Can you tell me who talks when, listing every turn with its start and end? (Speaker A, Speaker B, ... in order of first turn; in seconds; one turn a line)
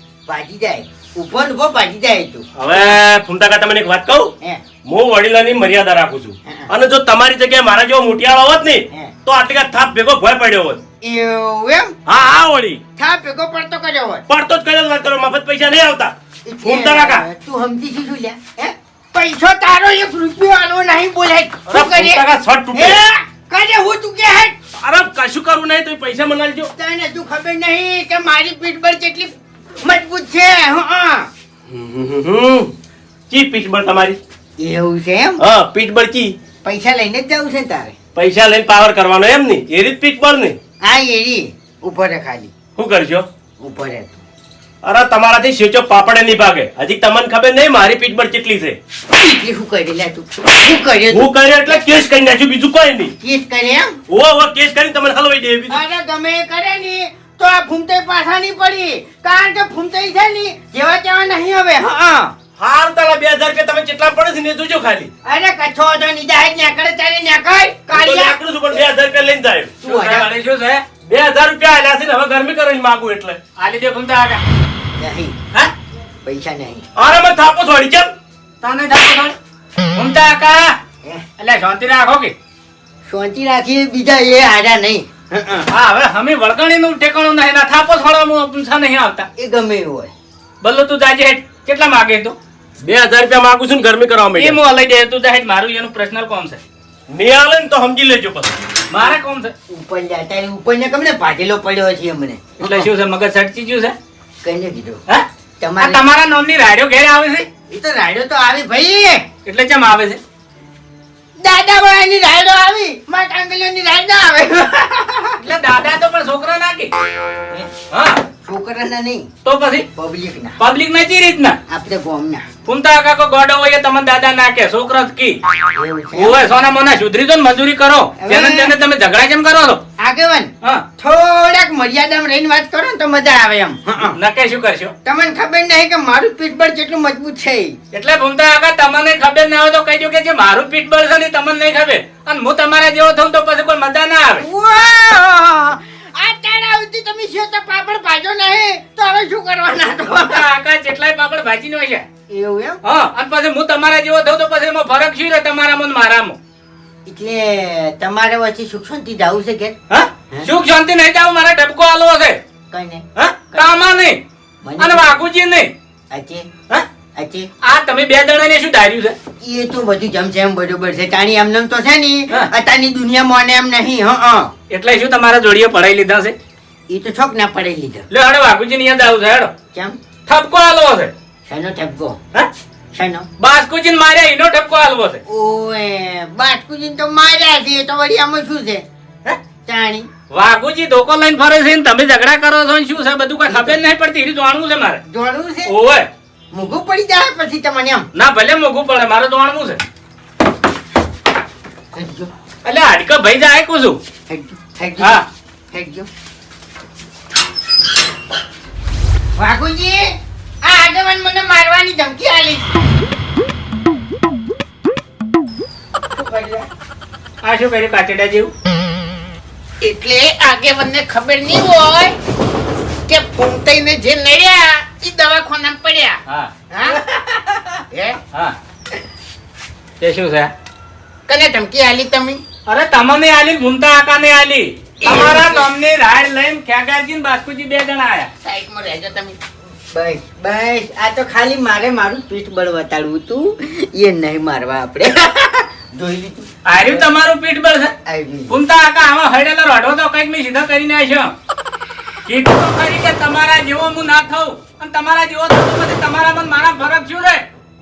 Speaker A: 0.2-2.9
Speaker B: 2.5-4.3
Speaker B: 4.8-10.8
Speaker A: 11.0-11.9
Speaker B: 12.1-12.8
Speaker A: 12.9-14.2
Speaker B: 14.3-17.2
Speaker A: 16.4-24.6
Speaker B: 21.7-23.0
Speaker B: 24.8-26.7
Speaker A: 26.8-31.3
Speaker B: 31.7-32.7
Speaker B: 33.3-34.2
Speaker A: 34.6-35.4
Speaker B: 35.4-36.3
Speaker A: 36.6-37.9
Speaker B: 38.1-40.6
Speaker A: 40.8-42.5
Speaker B: 42.8-43.3
Speaker A: 43.6-44.2
Speaker B: 44.8-48.8
Speaker A: 49.1-51.3
Speaker B: 51.1-53.1
Speaker A: 53.2-54.0
Speaker B: 54.1-55.8
Speaker A: 55.7-62.3
Speaker B: 62.6-65.1
Speaker A: 65.2-68.4
Speaker B: 67.9-69.8
Speaker A: 69.8-70.2
Speaker C: 69.8-70.8
Speaker B: 71.0-73.4
Speaker C: 73.6-74.4
Speaker A: 75.0-75.3
Speaker A: 76.2-76.8
Speaker B: 77.0-78.1
Speaker C: 78.6-79.3
Speaker C: 79.9-80.7
Speaker C: 81.4-82.3
Speaker A: 83.0-85.7
Speaker C: 85.7-89.3
Speaker A: 89.3-90.1
Speaker C: 90.6-92.3
Speaker B: 92.8-94.6
Speaker C: 94.4-96.6
Speaker B: 97.1-98.7
Speaker C: 98.9-99.5
Speaker A: 99.7-102.9
Speaker C: 102.6-103.9
Speaker A: 104.4-105.0
Speaker A: 105.6-106.0
Speaker C: 105.8-107.5
Speaker A: 107.7-109.2
Speaker C: 109.5-110.2
Speaker A: 111.4-115.4
Speaker C: 115.4-116.9
Speaker C: 117.9-118.2
Speaker A: 118.4-119.3
Speaker C: 119.4-119.9
Speaker A: 120.0-120.6
Speaker C: 120.6-121.6
Speaker A: 121.7-122.5
Speaker C: 122.6-125.4
Speaker A: 125.7-126.5
Speaker C: 126.1-129.8
Speaker A: 128.2-128.7
Speaker A: 130.0-134.2
Speaker C: 134.0-134.9
Speaker A: 135.0-137.8
Speaker C: 137.9-144.4
Speaker A: 144.4-150.5
Speaker C: 150.3-152.1
Speaker A: 152.3-152.8
Speaker C: 152.8-156.4
Speaker A: 157.1-159.8
Speaker C: 159.9-162.4
Speaker A: 162.7-163.8
Speaker C: 163.2-164.2
Speaker A: 164.6-165.1
Speaker C: 164.8-165.7
Speaker A: 166.1-166.5
Speaker A: 167.1-167.5
Speaker C: 167.6-169.2
Speaker A: 169.4-174.5
Speaker C: 174.7-176.3
Speaker A: 176.9-178.1
Speaker C: 178.1-179.5
Speaker C: 180.3-181.1
Speaker A: 181.5-182.2
Speaker A: 182.9-183.3
Speaker C: 183.4-185.2
Speaker A: 185.3-188.8
Speaker A: 189.7-190.1
Speaker C: 190.3-195.0
Speaker A: 193.5-193.8
Speaker A: 195.1-195.7
Speaker C: 195.7-196.1
Speaker A: 196.5-198.1
Speaker C: 198.1-199.8
Speaker A: 201.9-202.3
Speaker C: 202.6-204.0
Speaker A: 204.3-206.1
Speaker C: 205.0-205.2
Speaker A: 209.3-212.8
Speaker A: 216.1-216.7
Speaker C: 217.4-218.5
Speaker D: 219.8-222.2
Speaker D: 223.1-226.2
Speaker A: 226.7-227.8
Speaker D: 227.9-228.2
Speaker C: 230.0-230.5
Speaker D: 231.3-232.4
Speaker C: 232.7-238.3
Speaker A: 235.0-235.6
Speaker D: 238.4-239.4
Speaker A: 239.9-247.0
Speaker C: 246.6-247.9
Speaker A: 248.1-248.5
Speaker C: 248.5-251.3
Speaker C: 252.2-257.4